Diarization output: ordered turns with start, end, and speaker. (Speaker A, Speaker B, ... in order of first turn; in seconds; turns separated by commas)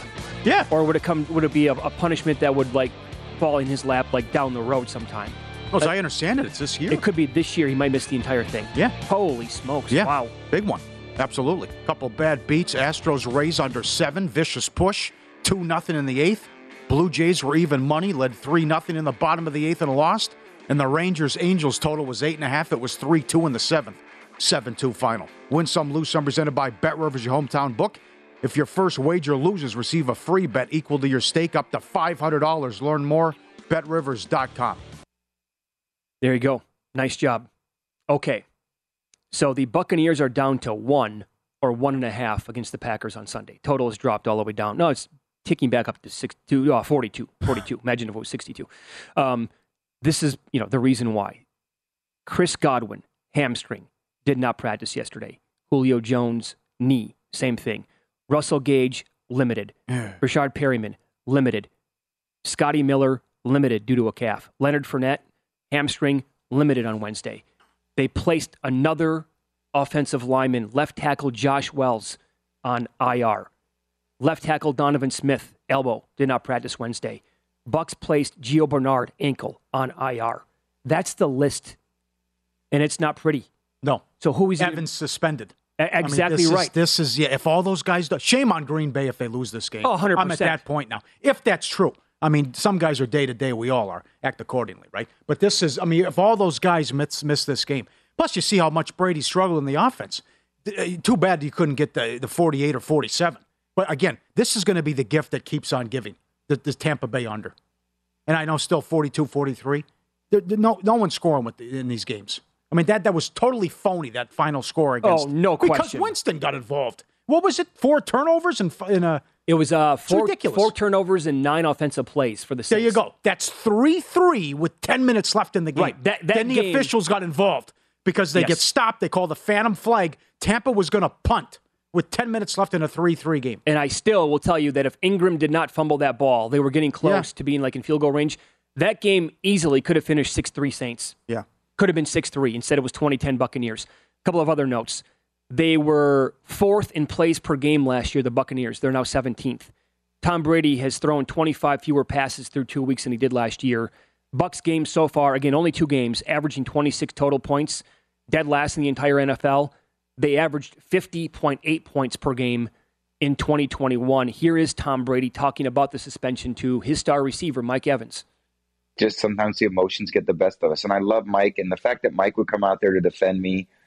Speaker A: 0.7-5.9, Speaker B: 5.7-7.0, Speaker A: 6.9-10.3, Speaker B: 9.9-34.8, Speaker A: 36.2-37.5, Speaker A: 38.1-38.4, Speaker A: 39.3-49.5, Speaker A: 50.0-51.4, Speaker A: 52.3-61.7, Speaker B: 59.9-60.2, Speaker A: 62.4-67.4, Speaker A: 68.0-73.5, Speaker A: 74.2-81.8, Speaker A: 82.7-83.5, Speaker A: 84.2-84.8, Speaker B: 84.6-107.5, Speaker A: 85.8-86.7, Speaker A: 89.8-90.6, Speaker B: 108.3-119.2, Speaker A: 115.0-116.1, Speaker A: 119.5-123.0, Speaker B: 120.1-120.7, Speaker B: 122.7-133.6, Speaker A: 125.8-126.9, Speaker A: 128.3-128.7, Speaker A: 133.7-141.2, Speaker A: 141.8-149.7, Speaker A: 150.2-162.7, Speaker A: 163.2-168.2, Speaker C: 169.0-173.7